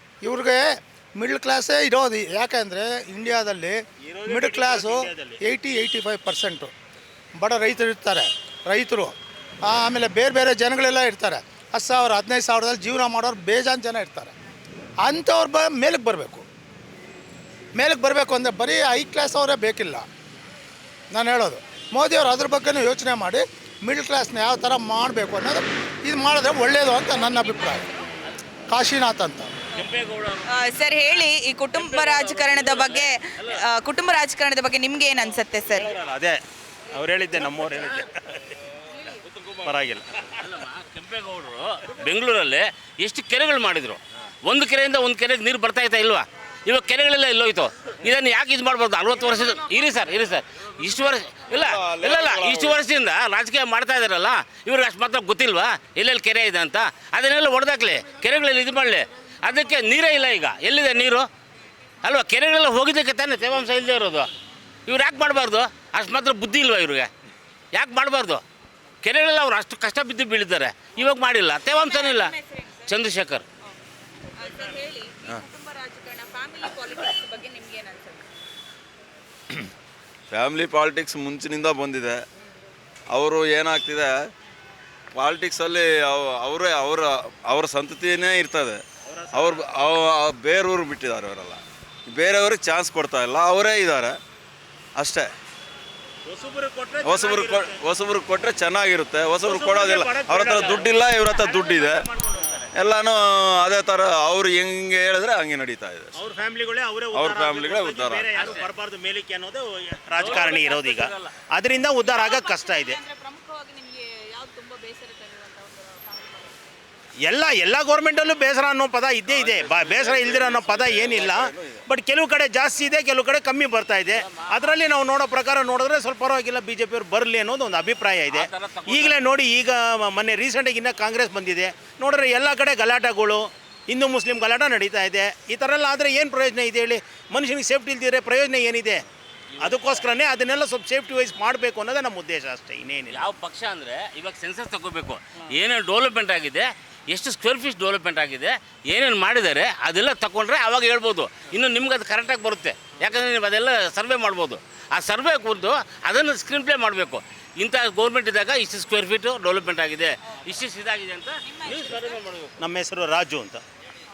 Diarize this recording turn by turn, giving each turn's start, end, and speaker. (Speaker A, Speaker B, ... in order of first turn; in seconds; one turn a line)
Speaker A: 0.2-6.7
Speaker B: 4.0-5.4
Speaker A: 7.4-9.1
Speaker A: 9.7-14.3
Speaker A: 15.0-16.4
Speaker A: 17.8-20.1
Speaker A: 21.1-27.9
Speaker C: 27.1-28.1
Speaker A: 28.7-29.5
Speaker D: 29.7-30.5
Speaker C: 30.5-35.9
Speaker D: 31.8-33.0
Speaker B: 36.0-36.4
Speaker B: 36.9-38.3
Speaker B: 39.6-40.0
Speaker D: 40.3-61.3
Speaker E: 51.7-52.7
Speaker D: 62.0-64.3
Speaker D: 64.9-67.1
Speaker D: 67.7-68.4
Speaker D: 69.0-72.3
Speaker C: 71.7-72.9
Speaker D: 72.8-73.4
Speaker C: 74.3-78.2
Speaker E: 80.3-82.2
Speaker E: 83.1-84.2
Speaker E: 85.1-88.8
Speaker B: 89.0-89.7
Speaker E: 89.3-94.2
Speaker E: 95.0-95.3
Speaker B: 96.2-97.8
Speaker E: 97.0-102.1
Speaker B: 99.4-102.7
Speaker D: 102.3-102.6
Speaker E: 102.7-106.2
Speaker B: 106.1-113.0
Speaker E: 107.1-108.3
Speaker D: 108.3-108.7
Speaker D: 110.2-111.3
Speaker C: 112.0-116.5
Speaker B: 117.2-139.0
Speaker E: 119.2-121.8
Speaker D: 124.1-124.8
Speaker D: 128.3-129.2
Speaker B: 139.6-143.3
Speaker D: 139.6-140.1
Speaker D: 143.1-162.5
Speaker C: 161.4-162.2
Speaker B: 162.6-163.6